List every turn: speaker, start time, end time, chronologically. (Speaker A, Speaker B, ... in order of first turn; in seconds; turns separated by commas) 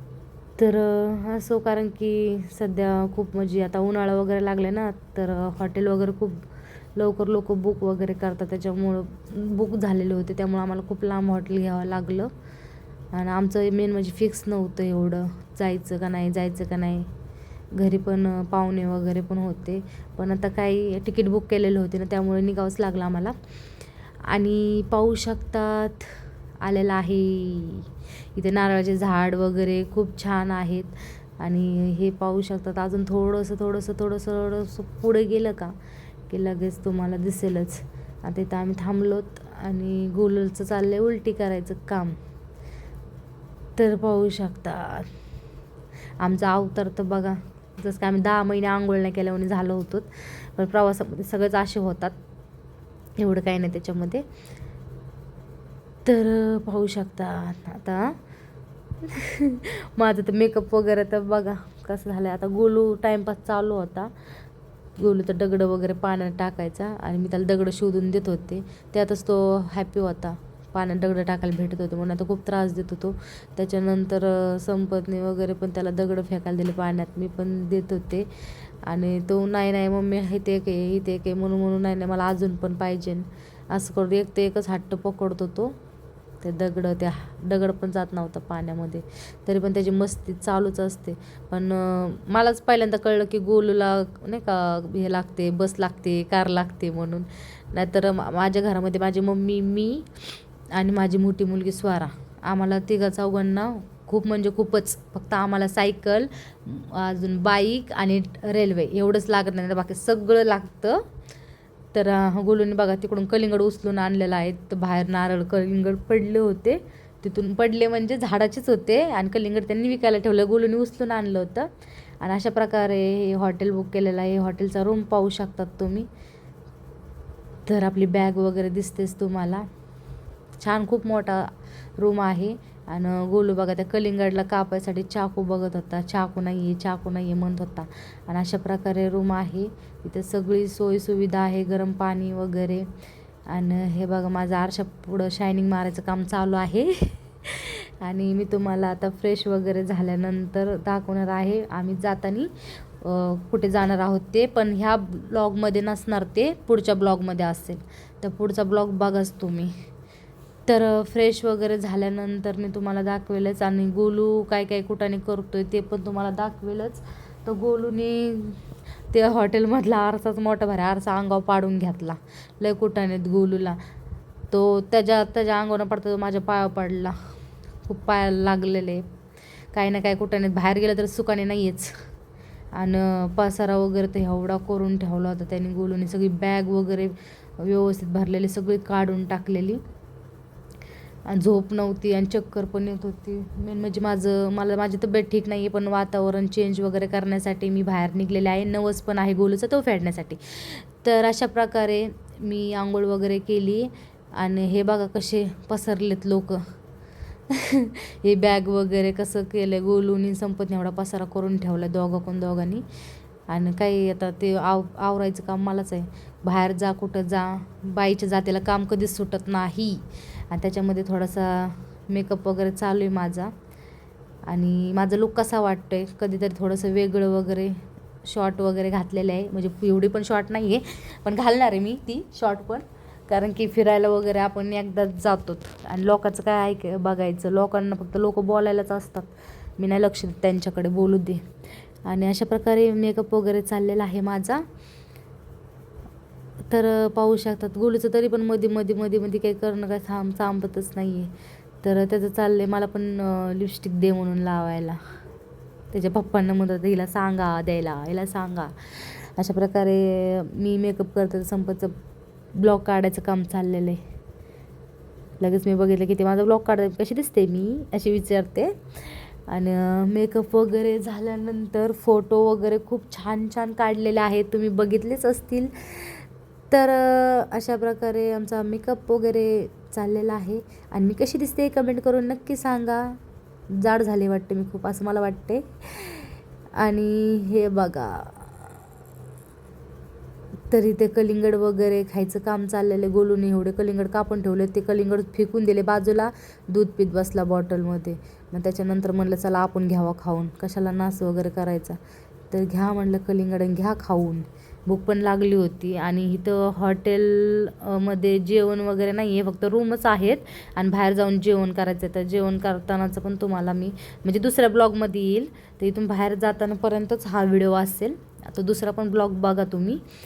Speaker A: 0.6-6.4, Speaker A: 7.0-12.3, Speaker A: 13.1-17.1, Speaker A: 17.7-23.4, Speaker A: 24.3-26.1, Speaker A: 26.6-35.7, Speaker A: 36.3-42.2, Speaker A: 43.8-45.1, Speaker A: 46.2-52.1, Speaker A: 53.2-54.2, Speaker A: 56.0-58.1, Speaker A: 59.0-64.1, Speaker A: 65.0-78.3, Speaker A: 78.8-85.7, Speaker A: 86.4-100.1, Speaker A: 100.7-111.0, Speaker A: 111.9-121.7, Speaker A: 122.2-126.1, Speaker A: 127.7-129.6, Speaker A: 130.6-142.8, Speaker A: 143.5-159.7, Speaker A: 160.7-168.6, Speaker A: 169.1-173.8, Speaker A: 174.5-177.1, Speaker A: 177.8-179.0, Speaker A: 179.7-181.9, Speaker A: 182.8-189.8, Speaker A: 191.3-206.6, Speaker A: 207.5-212.8, Speaker A: 213.5-223.5, Speaker A: 224.5-241.4, Speaker A: 242.0-244.6, Speaker A: 246.7-251.3, Speaker A: 251.8-255.0, Speaker A: 255.9-261.9, Speaker A: 262.6-264.0, Speaker A: 265.4-283.1, Speaker A: 283.8-286.3, Speaker A: 286.8-288.7, Speaker A: 290.7-302.0, Speaker A: 302.5-320.0